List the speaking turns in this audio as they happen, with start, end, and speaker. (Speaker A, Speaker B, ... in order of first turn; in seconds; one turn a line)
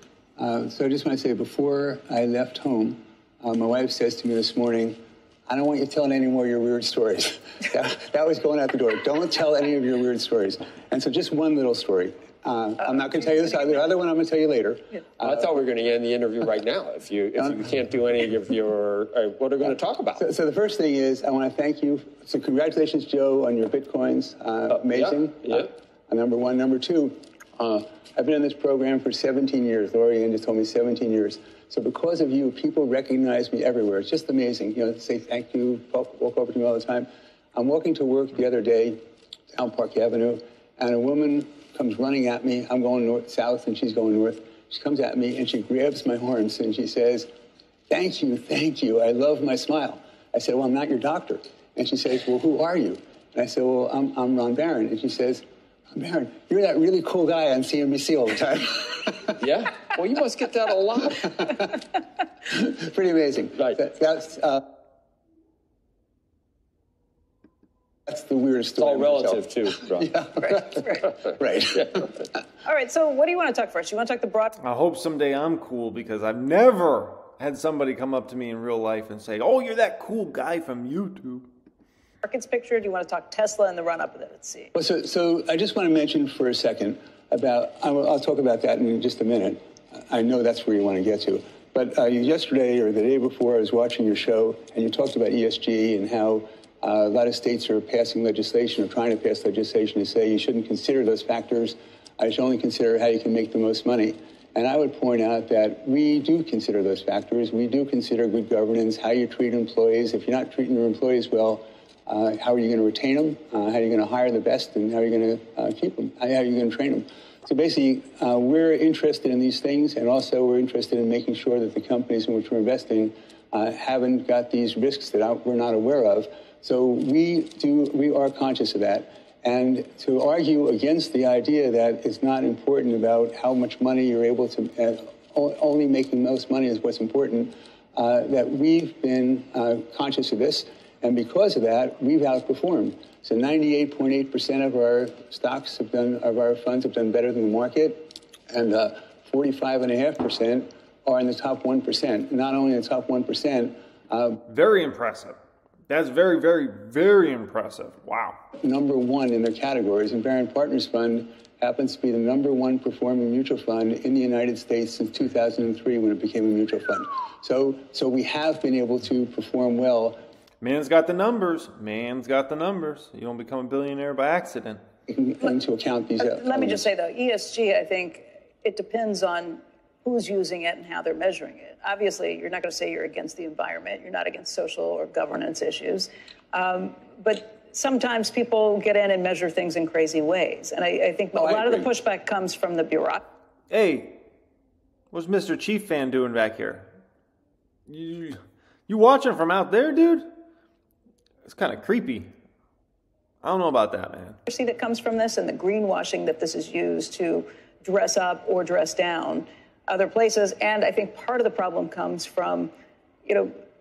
Speaker A: 0.4-15.4
Speaker B: 15.2-20.2
Speaker A: 20.2-39.0
Speaker B: 24.9-25.7
Speaker A: 39.5-47.3
Speaker A: 47.9-59.4
Speaker B: 59.4-61.4
Speaker A: 61.4-61.8
Speaker A: 62.4-64.6
Speaker A: 68.1-72.1
Speaker B: 68.8-70.1
Speaker C: 70.5-71.0
Speaker C: 72.6-74.5
Speaker D: 74.6-81.5
Speaker C: 82.2-84.7
Speaker A: 84.7-154.4
Speaker D: 154.4-155.3
Speaker D: 155.9-158.4
Speaker A: 158.6-170.2
Speaker D: 170.6-174.8
Speaker A: 175.1-176.9
Speaker C: 176.2-193.2
Speaker A: 191.3-191.9
Speaker D: 193.7-194.2
Speaker D: 195.1-196.9
Speaker D: 197.9-200.2
Speaker D: 201.4-202.3
Speaker D: 203.4-204.4
Speaker C: 204.5-212.7
Speaker C: 213.2-213.5